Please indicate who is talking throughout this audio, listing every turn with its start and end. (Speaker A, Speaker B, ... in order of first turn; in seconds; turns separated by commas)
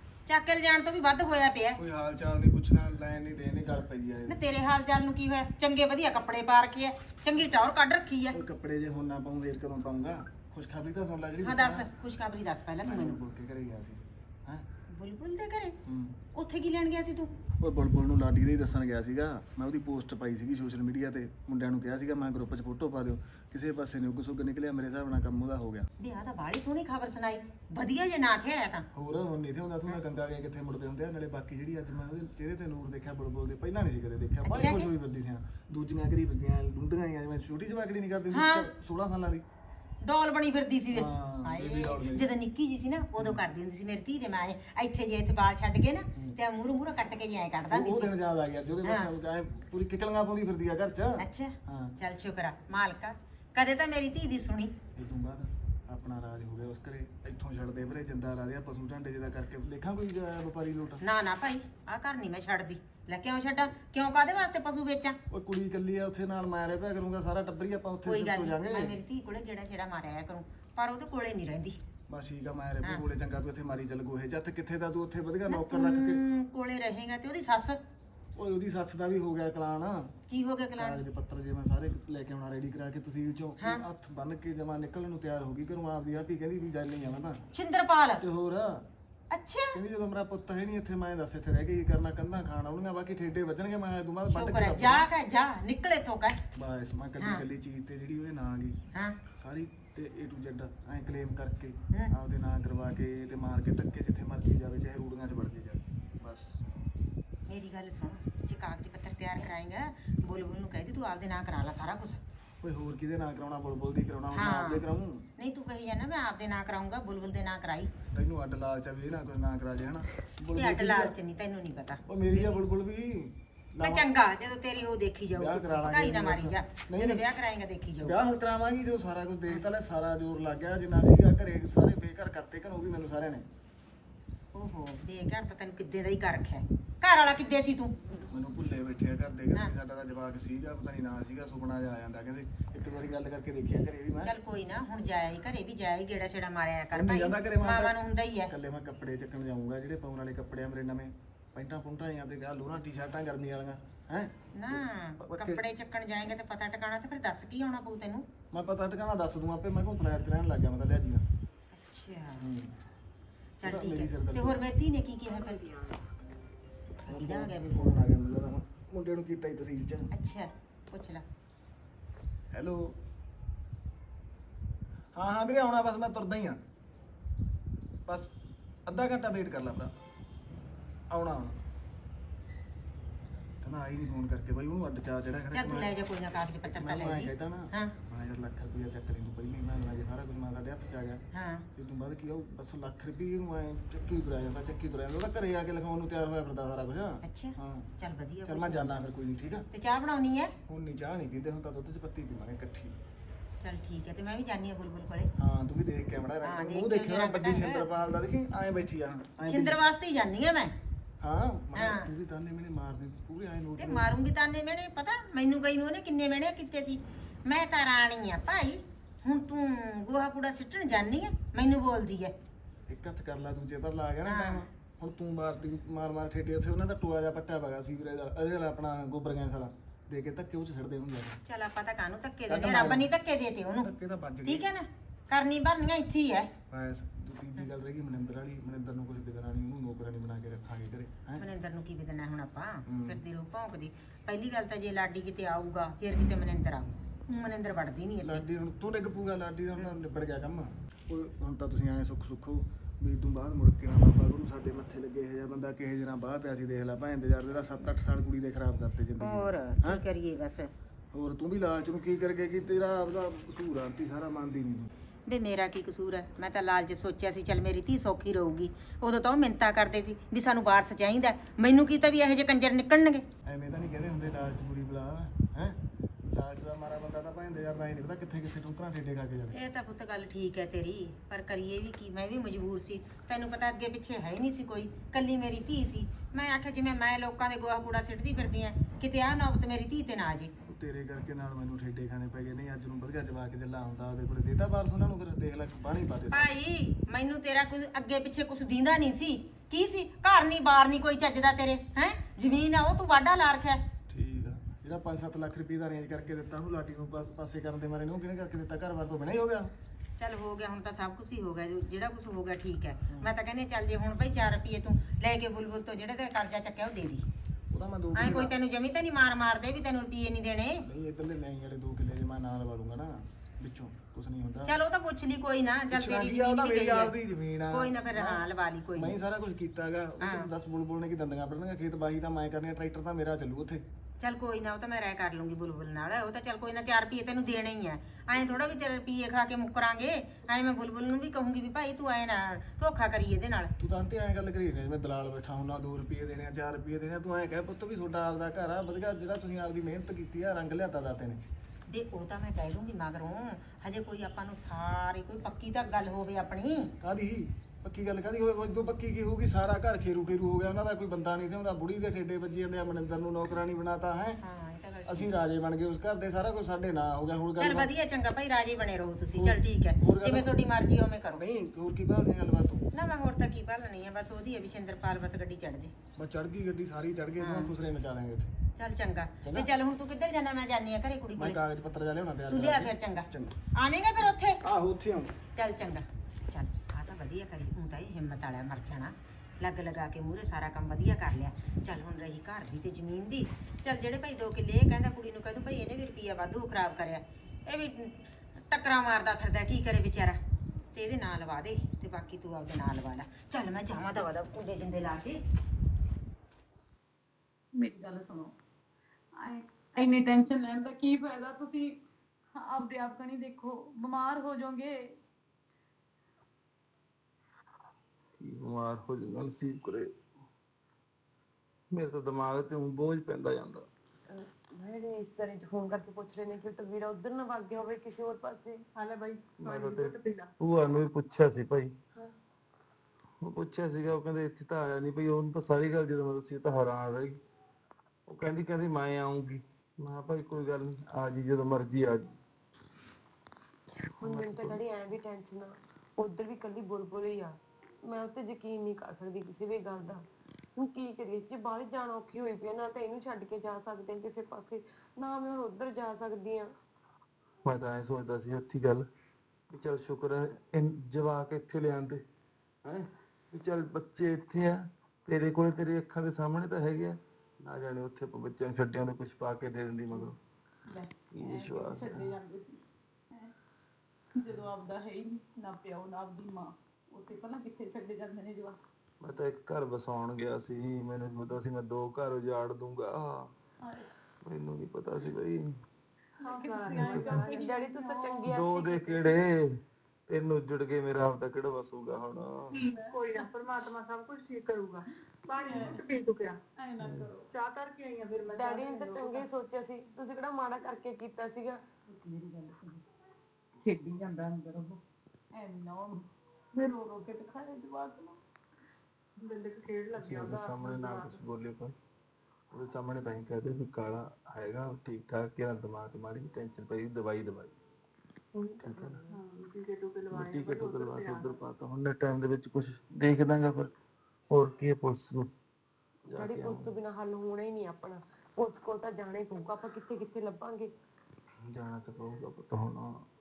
Speaker A: 0.3-1.8, Speaker B: 1.8-4.4, Speaker A: 4.3-8.4, Speaker B: 8.3-11.9, Speaker A: 11.4-13.2, Speaker B: 12.8-14.7, Speaker A: 14.9-15.8, Speaker B: 15.9-16.2, Speaker A: 16.4-17.3, Speaker B: 17.6-25.9, Speaker A: 26.0-28.9, Speaker B: 28.9-39.4, Speaker A: 34.4-34.9, Speaker A: 38.3-38.7, Speaker A: 40.0-48.1, Speaker B: 40.9-42.3, Speaker B: 47.7-52.0, Speaker A: 48.8-49.1, Speaker A: 51.2-54.8, Speaker B: 55.0-61.0, Speaker A: 61.0-65.2, Speaker B: 65.3-69.0, Speaker A: 68.1-71.8, Speaker B: 72.1-76.2, Speaker A: 75.5-77.8, Speaker B: 78.4-80.1, Speaker A: 80.3-81.0, Speaker B: 80.8-87.4, Speaker A: 87.5-88.2, Speaker B: 88.2-88.8, Speaker A: 89.3-89.8, Speaker B: 89.7-95.1, Speaker A: 94.3-96.4, Speaker B: 96.6-98.8, Speaker B: 99.4-106.6, Speaker A: 107.5-112.2, Speaker B: 112.6-115.2, Speaker A: 114.3-114.8, Speaker A: 115.4-117.9, Speaker B: 118.1-121.2, Speaker A: 120.5-122.5, Speaker B: 122.1-124.1, Speaker A: 123.8-128.2, Speaker B: 125.3-127.2, Speaker B: 128.0-133.5, Speaker A: 134.6-137.9, Speaker B: 138.3-144.3, Speaker A: 144.2-148.5, Speaker B: 146.9-155.6, Speaker A: 154.6-158.2, Speaker B: 158.5-161.2, Speaker A: 161.7-162.4, Speaker B: 162.4-162.7, Speaker A: 163.6-165.8, Speaker B: 163.6-164.6, Speaker B: 167.1-170.1, Speaker A: 167.1-168.1, Speaker A: 170.1-171.2, Speaker B: 172.5-173.0, Speaker B: 175.1-176.6, Speaker B: 178.1-178.3, Speaker B: 178.9-179.9, Speaker B: 181.1-181.6, Speaker B: 183.6-185.9, Speaker A: 185.5-187.9, Speaker B: 186.6-191.2, Speaker A: 191.3-191.7, Speaker B: 191.8-197.9, Speaker A: 197.2-199.1, Speaker B: 198.4-199.7, Speaker A: 199.7-200.5, Speaker B: 200.7-203.0, Speaker A: 203.6-205.3, Speaker B: 205.4-209.8, Speaker A: 206.4-207.9, Speaker A: 209.4-210.7, Speaker B: 211.2-214.1, Speaker A: 211.8-212.1, Speaker A: 213.8-222.3, Speaker B: 222.9-231.4, Speaker A: 224.2-224.7, Speaker A: 231.5-233.9, Speaker B: 232.5-233.1, Speaker B: 233.8-234.7, Speaker A: 234.5-236.5, Speaker B: 236.7-241.4, Speaker A: 241.4-248.4, Speaker B: 242.9-243.2, Speaker B: 248.2-260.0, Speaker A: 259.2-260.7, Speaker B: 261.1-264.9, Speaker A: 265.3-273.2, Speaker B: 273.4-275.8, Speaker B: 276.3-279.6, Speaker A: 279.5-290.5, Speaker B: 290.7-296.5, Speaker A: 296.3-303.8, Speaker B: 304.1-309.7, Speaker A: 310.2-317.2, Speaker B: 317.7-318.5, Speaker A: 318.1-320.8, Speaker B: 320.8-324.8, Speaker A: 324.6-327.1, Speaker B: 325.9-328.4, Speaker A: 327.7-329.2, Speaker B: 328.9-333.9, Speaker A: 330.2-330.5, Speaker A: 334.2-343.7, Speaker B: 343.8-351.4, Speaker A: 351.9-356.9, Speaker B: 357.0-364.4, Speaker A: 364.4-365.4, Speaker B: 365.0-367.9, Speaker A: 367.6-371.4, Speaker B: 369.4-370.6, Speaker B: 371.4-372.9, Speaker A: 372.9-375.9, Speaker B: 376.1-378.5, Speaker A: 377.4-377.7, Speaker A: 378.8-381.6, Speaker B: 379.4-379.7, Speaker B: 381.4-383.6, Speaker A: 382.5-384.6, Speaker B: 384.6-385.4, Speaker A: 385.6-398.1, Speaker A: 398.7-400.4, Speaker A: 400.9-405.4, Speaker C: 407.8-408.5, Speaker C: 409.4-412.0, Speaker C: 412.5-415.1, Speaker D: 418.4-420.1, Speaker D: 421.9-423.9, Speaker E: 424.3-428.8, Speaker F: 429.0-430.5, Speaker D: 429.6-431.9, Speaker D: 433.4-437.4, Speaker D: 438.3-442.3, Speaker E: 444.2-450.2, Speaker D: 444.2-444.8, Speaker E: 450.8-456.7, Speaker D: 457.6-459.1, Speaker D: 459.7-462.2, Speaker D: 462.9-470.4, Speaker C: 470.9-473.5, Speaker D: 471.3-472.4, Speaker C: 474.4-478.8, Speaker D: 479.2-483.5, Speaker C: 483.8-484.1, Speaker D: 484.4-485.8, Speaker C: 486.4-488.5, Speaker F: 486.4-487.6, Speaker D: 486.9-487.3, Speaker E: 487.1-489.4, Speaker D: 488.4-492.8, Speaker C: 492.7-493.5, Speaker F: 493.1-496.6, Speaker C: 495.5-496.0, Speaker D: 495.7-496.0, Speaker C: 496.8-497.5, Speaker D: 497.0-497.3, Speaker F: 497.5-499.5, Speaker E: 498.5-501.8, Speaker C: 502.1-503.0, Speaker C: 503.8-505.0, Speaker C: 505.5-508.4, Speaker F: 509.4-511.4, Speaker D: 510.1-511.9, Speaker D: 512.7-517.8, Speaker D: 518.8-519.2, Speaker F: 519.3-521.6, Speaker D: 520.3-523.9, Speaker D: 524.5-525.5, Speaker D: 526.3-527.0, Speaker E: 526.3-530.9, Speaker D: 531.6-533.2